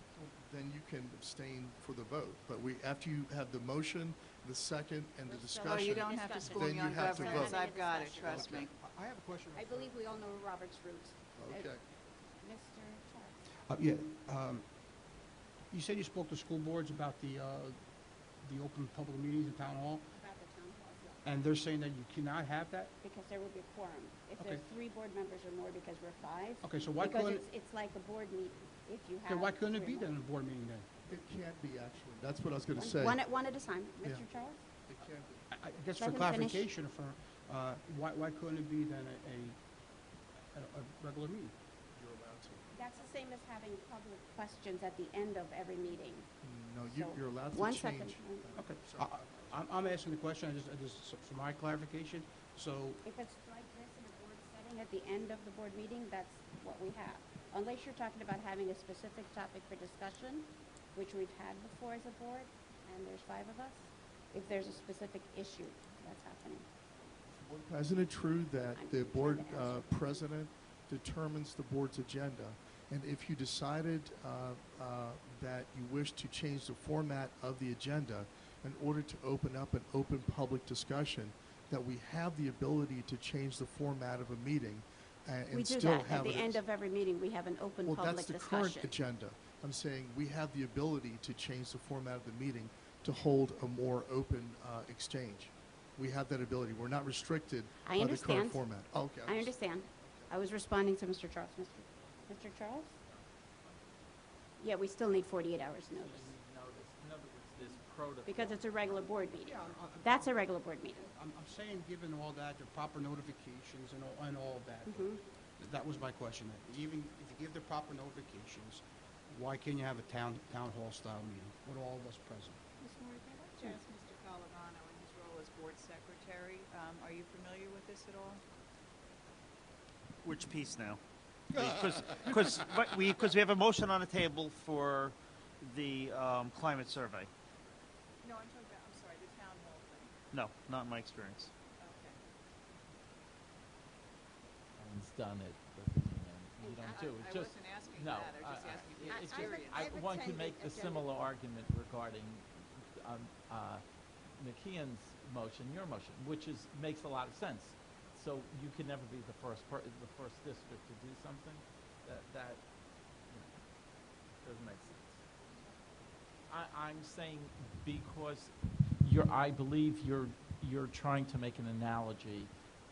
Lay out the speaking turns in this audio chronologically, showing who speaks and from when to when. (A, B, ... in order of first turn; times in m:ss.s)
0:00.2-0:07.6 A
0:05.3-0:08.5 B
0:05.7-0:08.7 C
0:08.2-0:08.7 A
0:08.7-0:10.0 D
0:09.6-0:11.8 B
0:11.4-0:11.8 A
0:12.4-0:13.4 B
0:13.7-0:14.6 D
0:15.7-0:17.8 D
0:18.4-0:20.1 D
0:20.2-0:21.2 B
0:21.2-0:22.9 D
0:23.0-0:30.1 B
0:24.4-0:24.6 D
0:26.6-0:27.4 D
0:29.2-0:30.9 D
0:31.1-0:33.2 A
0:32.8-0:34.6 B
0:34.9-0:35.5 A
0:35.5-0:39.6 D
0:36.0-0:36.6 B
0:40.5-0:41.6 D
0:42.0-0:42.7 A
0:42.8-0:46.3 B
0:46.4-0:49.9 A
0:46.8-0:48.5 B
0:48.5-0:53.0 D
0:53.0-1:06.7 B
1:07.3-1:26.6 A
1:08.8-1:10.2 B
1:25.5-1:28.9 B
1:27.9-1:40.3 A
1:37.8-1:38.7 B
1:39.2-1:42.9 B
1:42.0-1:44.0 E
1:44.6-1:46.3 B
1:45.9-1:49.0 E
1:48.3-1:51.1 B
1:49.3-1:50.4 D
1:51.0-2:02.6 D
1:54.9-1:55.2 B
2:02.8-2:08.4 C
2:10.2-2:17.3 F
2:11.6-2:12.6 D
2:18.2-2:20.1 C
2:20.3-2:21.5 F
2:21.8-2:22.2 C
2:24.8-2:33.8 E
2:26.6-2:27.1 B
2:26.8-2:29.9 C
2:29.1-2:31.1 B
2:34.4-2:42.6 E
2:44.4-2:45.2 E
2:46.5-2:52.5 E